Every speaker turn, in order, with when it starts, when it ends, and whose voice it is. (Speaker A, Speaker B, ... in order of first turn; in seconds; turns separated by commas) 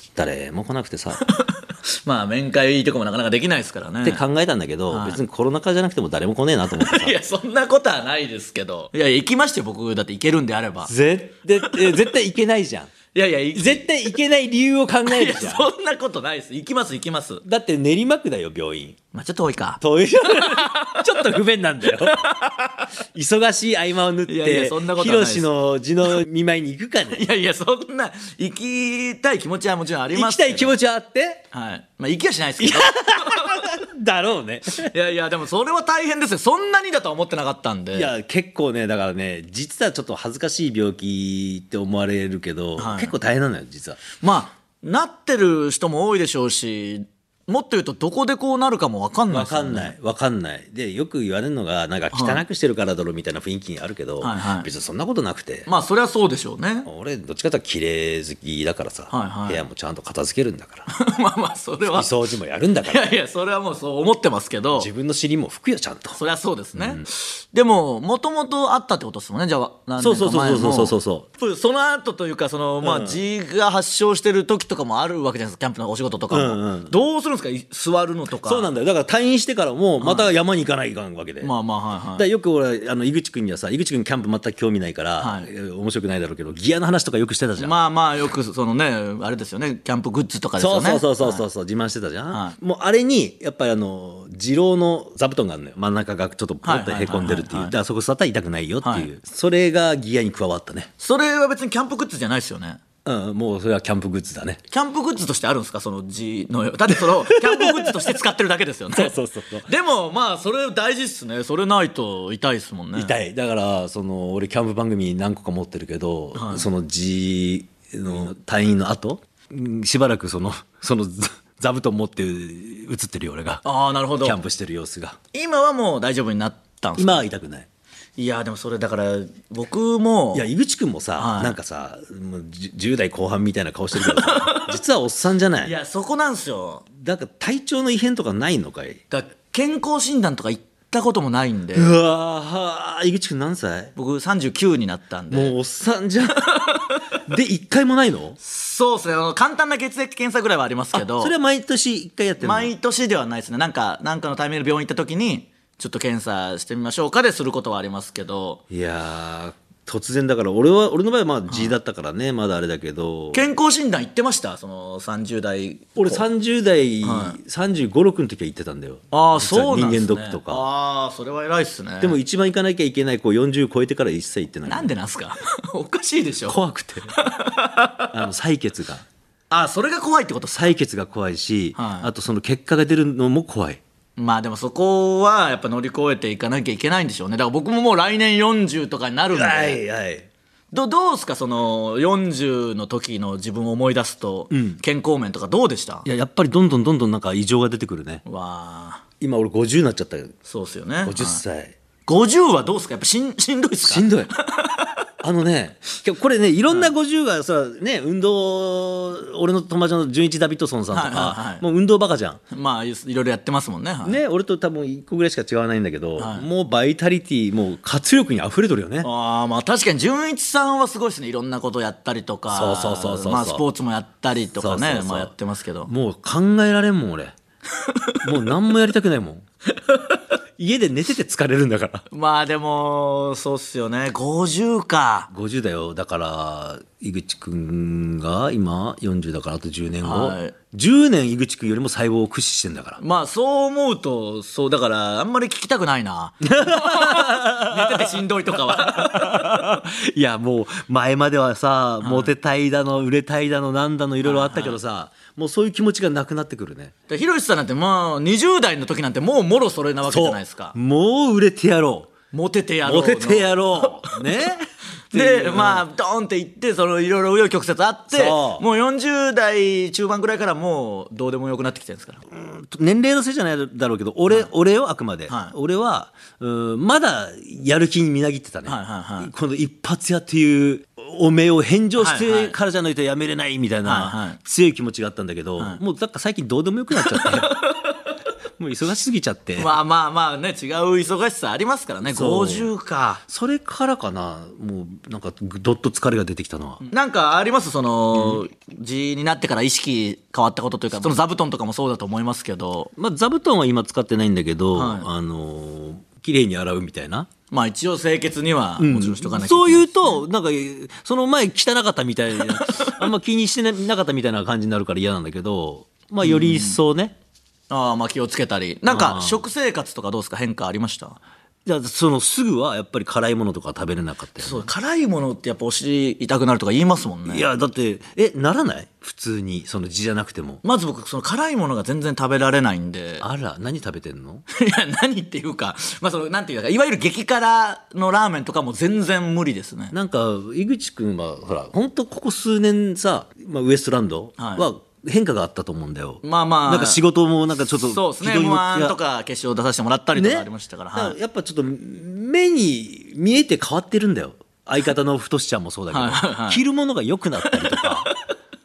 Speaker A: 0.1-1.2, Speaker B: 1.3-4.2, Speaker A: 4.0-7.1, Speaker B: 4.9-5.2, Speaker B: 6.7-10.9, Speaker A: 10.9-12.9, Speaker B: 11.6-12.0, Speaker B: 13.1-13.9, Speaker A: 13.5-15.7, Speaker B: 15.1-17.4, Speaker A: 17.4-19.0, Speaker B: 19.1-22.9, Speaker A: 19.8-22.2, Speaker A: 23.1-27.2, Speaker B: 24.3-25.5, Speaker B: 27.1-30.7, Speaker A: 30.1-31.4, Speaker B: 31.5-33.7, Speaker A: 32.6-34.9, Speaker B: 34.8-38.1, Speaker A: 37.9-44.0, Speaker B: 42.8-43.1, Speaker B: 44.2-49.9, Speaker A: 49.3-55.7, Speaker B: 52.1-52.4, Speaker B: 54.2-54.7, Speaker B: 55.7-56.9, Speaker A: 56.9-60.9, Speaker B: 59.1-59.6, Speaker B: 60.9-62.1, Speaker A: 61.9-63.1, Speaker B: 62.9-64.9, Speaker A: 64.8-66.2, Speaker B: 66.2-78.7, Speaker A: 66.8-67.0, Speaker A: 70.0-71.3, Speaker A: 72.8-73.2, Speaker A: 76.3-76.9, Speaker A: 78.4-81.5, Speaker B: 80.0-80.3, Speaker B: 81.4-82.2, Speaker A: 82.1-87.7, Speaker B: 85.2-85.5, Speaker B: 87.6-91.4, Speaker A: 90.6-100.9, Speaker B: 92.3-92.6, Speaker B: 96.6-97.8, Speaker B: 98.8-99.1, Speaker B: 101.0-102.8, Speaker A: 103.0-104.6, Speaker B: 104.7-109.1, Speaker A: 106.9-108.2, Speaker A: 108.9-109.7, Speaker B: 109.6-113.1, Speaker A: 112.9-123.7, Speaker B: 116.3-116.7, Speaker B: 123.6-124.4, Speaker A: 124.2-125.2, Speaker B: 125.3-127.3, Speaker A: 127.0-127.7, Speaker B: 128.2-130.5, Speaker A: 130.3-135.7, Speaker B: 131.2-131.6, Speaker B: 133.9-134.8, Speaker B: 135.6-136.8, Speaker A: 136.9-139.0, Speaker B: 139.1-141.9, Speaker A: 141.7-143.9, Speaker B: 143.9-145.5, Speaker A: 145.3-146.4, Speaker B: 146.3-147.0, Speaker A: 147.3-148.4, Speaker B: 148.4-151.3, Speaker A: 150.9-152.7, Speaker B: 152.4-158.6, Speaker A: 158.7-163.5, Speaker B: 161.5-161.7, Speaker B: 163.3-166.2, Speaker A: 166.0-170.6, Speaker B: 167.0-167.4, Speaker B: 169.1-172.2, Speaker A: 172.0-174.9, Speaker B: 174.7-176.6, Speaker A: 176.5-177.1, Speaker B: 177.1-178.1, Speaker A: 178.1-179.0, Speaker B: 179.5-180.7, Speaker A: 180.5-183.8, Speaker B: 181.8-182.1, Speaker B: 184.2-189.8, Speaker A: 189.3-190.3, Speaker B: 190.7-196.1, Speaker A: 194.5-194.8, Speaker A: 196.1-198.2, Speaker B: 198.2-199.0, Speaker A: 199.2-200.3, Speaker B: 200.4-201.4, Speaker A: 201.0-201.7, Speaker B: 202.1-204.9, Speaker A: 203.8-204.3, Speaker A: 205.2-212.4, Speaker B: 210.9-211.6, Speaker B: 212.5-214.2, Speaker A: 214.0-219.1, Speaker B: 216.2-216.5, Speaker B: 219.0-225.9, Speaker A: 222.5-223.6, Speaker A: 224.6-225.3, Speaker A: 225.9-227.3, Speaker B: 227.8-228.2, Speaker A: 228.2-229.4, Speaker B: 229.8-230.2, Speaker A: 230.6-232.1, Speaker B: 232.1-235.3, Speaker A: 235.3-243.0, Speaker B: 240.0-240.5, Speaker B: 243.0-249.8, Speaker A: 246.5-256.9, Speaker B: 252.0-252.3, Speaker B: 254.2-254.8, Speaker B: 257.1-260.8, Speaker A: 260.1-262.1, Speaker B: 262.3-264.5, Speaker A: 262.8-265.8, Speaker B: 265.1-272.2, Speaker A: 268.1-268.6, Speaker A: 272.3-287.5, Speaker B: 275.3-275.5, Speaker B: 278.7-279.3, Speaker B: 282.0-282.5, Speaker B: 283.8-284.4, Speaker B: 286.9-288.1, Speaker A: 288.6-289.7, Speaker B: 289.6-293.2, Speaker A: 292.0-292.7, Speaker A: 293.3-296.8, Speaker B: 296.8-302.9, Speaker A: 298.1-298.4, Speaker A: 302.9-307.3, Speaker B: 304.7-305.1, Speaker B: 307.5-310.2, Speaker A: 308.8-317.1, Speaker B: 312.6-313.0, Speaker B: 316.2-316.8, Speaker B: 317.7-321.2, Speaker A: 318.9-319.4, Speaker A: 321.6-324.7, Speaker B: 324.4-327.5, Speaker A: 327.2-330.6, Speaker B: 330.6-333.2, Speaker A: 333.2-334.4, Speaker B: 334.5-339.9, Speaker A: 339.9-349.0, Speaker B: 344.4-344.7, Speaker B: 346.2-347.0, Speaker B: 347.9-351.2, Speaker A: 350.1-358.1, Speaker B: 355.9-356.6, Speaker B: 357.5-358.2